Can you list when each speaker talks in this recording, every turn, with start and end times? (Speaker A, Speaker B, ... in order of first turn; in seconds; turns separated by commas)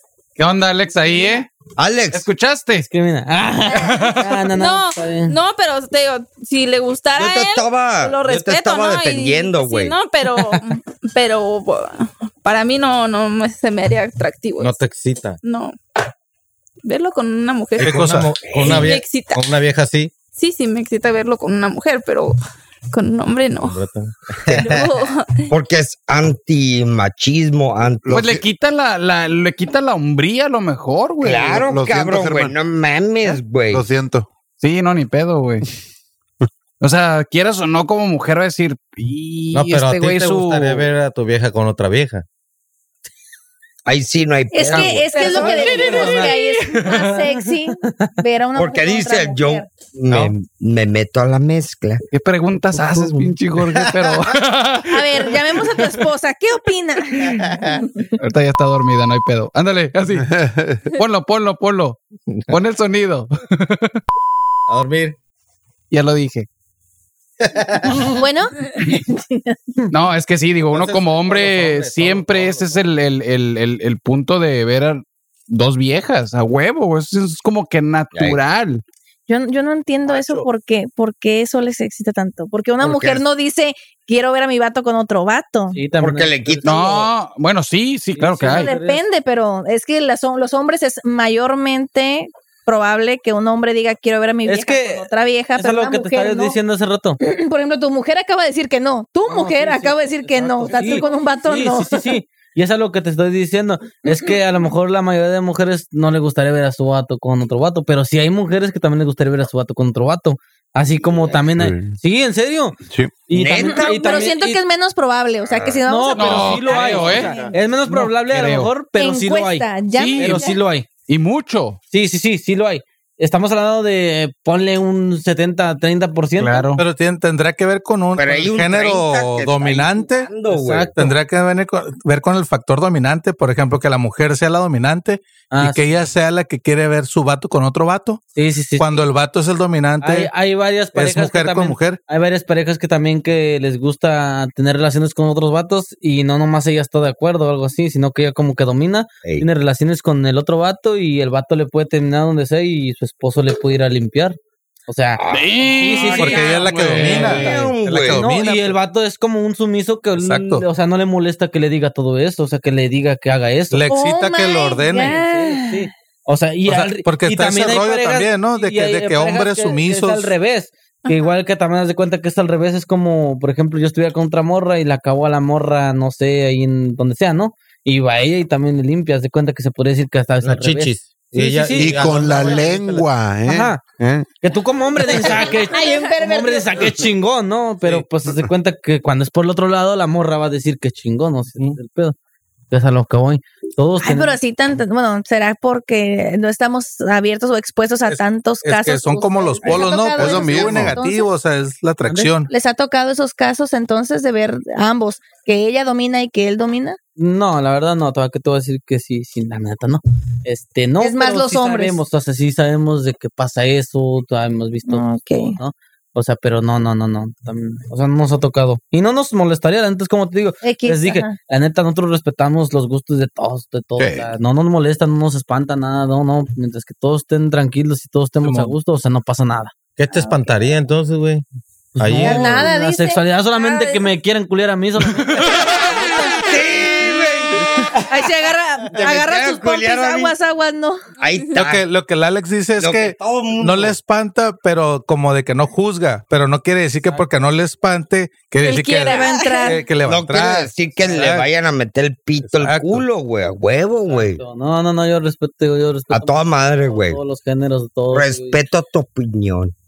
Speaker A: 0.4-1.5, Speaker B: 1.8-2.2, Speaker A: 2.1-2.9, Speaker C: 2.8-5.3, Speaker A: 3.8-4.2, Speaker D: 4.5-14.8, Speaker B: 7.1-9.9, Speaker E: 14.6-15.4, Speaker D: 15.4-15.8, Speaker D: 16.8-19.5, Speaker F: 17.8-18.4, Speaker E: 17.8-20.1, Speaker B: 17.9-18.9, Speaker D: 20.3-22.3, Speaker D: 22.9-23.8, Speaker E: 23.6-24.6, Speaker D: 24.5-25.5, Speaker B: 25.5-28.1, Speaker G: 28.0-28.4, Speaker A: 28.1-31.6, Speaker B: 31.2-33.8, Speaker G: 31.6-32.5, Speaker G: 33.7-34.3, Speaker A: 34.6-35.6, Speaker A: 36.8-40.9, Speaker E: 39.5-42.2, Speaker B: 43.8-45.1, Speaker H: 44.5-49.7, Speaker D: 45.1-46.5, Speaker C: 45.2-46.3, Speaker A: 46.8-47.1, Speaker C: 47.8-48.1, Speaker B: 48.5-52.0, Speaker A: 52.1-55.9, Speaker E: 52.7-54.1, Speaker H: 54.9-58.1, Speaker A: 58.2-60.3, Speaker G: 60.2-60.8, Speaker A: 60.9-62.0, Speaker A: 62.5-64.0, Speaker E: 64.7-65.2, Speaker A: 65.9-66.5, Speaker E: 67.4-68.0, Speaker H: 68.0-69.5, Speaker A: 69.9-78.8, Speaker E: 70.7-72.8, Speaker B: 78.1-78.4, Speaker H: 79.3-85.8, Speaker F: 80.0-80.5, Speaker B: 82.8-83.2, Speaker C: 85.7-87.1, Speaker B: 86.0-87.1, Speaker A: 86.6-88.7, Speaker C: 88.1-89.0, Speaker H: 88.5-96.6, Speaker C: 94.5-97.2, Speaker H: 97.2-102.1, Speaker C: 99.2-112.8, Speaker G: 111.5-111.9, Speaker G: 112.9-113.1, Speaker C: 113.3-114.6, Speaker B: 113.3-114.2, Speaker H: 113.7-117.5, Speaker B: 115.5-115.8, Speaker C: 115.8-120.9, Speaker A: 116.2-117.3, Speaker G: 117.2-117.5, Speaker A: 117.9-118.7, Speaker H: 118.9-120.6, Speaker A: 119.9-120.5, Speaker A: 121.0-121.8, Speaker C: 121.9-126.6, Speaker A: 126.4-126.8, Speaker F: 126.8-130.3, Speaker B: 128.1-131.0, Speaker C: 130.5-131.1, Speaker F: 130.9-138.2, Speaker C: 135.5-135.9, Speaker C: 138.3-139.1, Speaker F: 138.8-140.3, Speaker C: 140.0-163.8, Speaker F: 140.9-142.0, Speaker B: 155.2-158.2, Speaker A: 155.3-157.4, Speaker F: 156.0-158.8, Speaker F: 160.2-160.7, Speaker F: 163.7-165.2, Speaker H: 163.9-165.9, Speaker C: 164.9-182.1, Speaker F: 166.7-170.3, Speaker E: 180.4-183.1, Speaker G: 181.7-184.3, Speaker C: 183.5-183.8, Speaker C: 184.4-192.2, Speaker H: 185.1-186.9, Speaker C: 192.7-194.4, Speaker H: 194.0-201.3, Speaker F: 198.1-202.5, Speaker G: 200.2-201.0, Speaker C: 202.1-202.3, Speaker H: 202.5-207.0, Speaker C: 207.2-229.7, Speaker H: 211.0-212.0, Speaker H: 214.9-215.6, Speaker H: 220.6-221.4, Speaker G: 224.0-224.3, Speaker F: 228.4-228.7, Speaker E: 230.0-231.4, Speaker H: 230.1-230.4, Speaker C: 231.9-236.3, Speaker E: 232.0-232.7, Speaker H: 232.2-234.0, Speaker B: 236.4-238.1, Speaker H: 238.1-241.0, Speaker B: 238.9-240.3, Speaker B: 241.2-241.8, Speaker F: 241.5-251.5, Speaker B: 242.8-244.0, Speaker C: 247.0-247.3, Speaker H: 248.6-249.8, Speaker D: 248.7-249.7, Speaker B: 250.0-254.4, Speaker F: 252.4-253.0, Speaker C: 254.1-258.6, Speaker B: 256.1-257.2, Speaker B: 258.1-259.7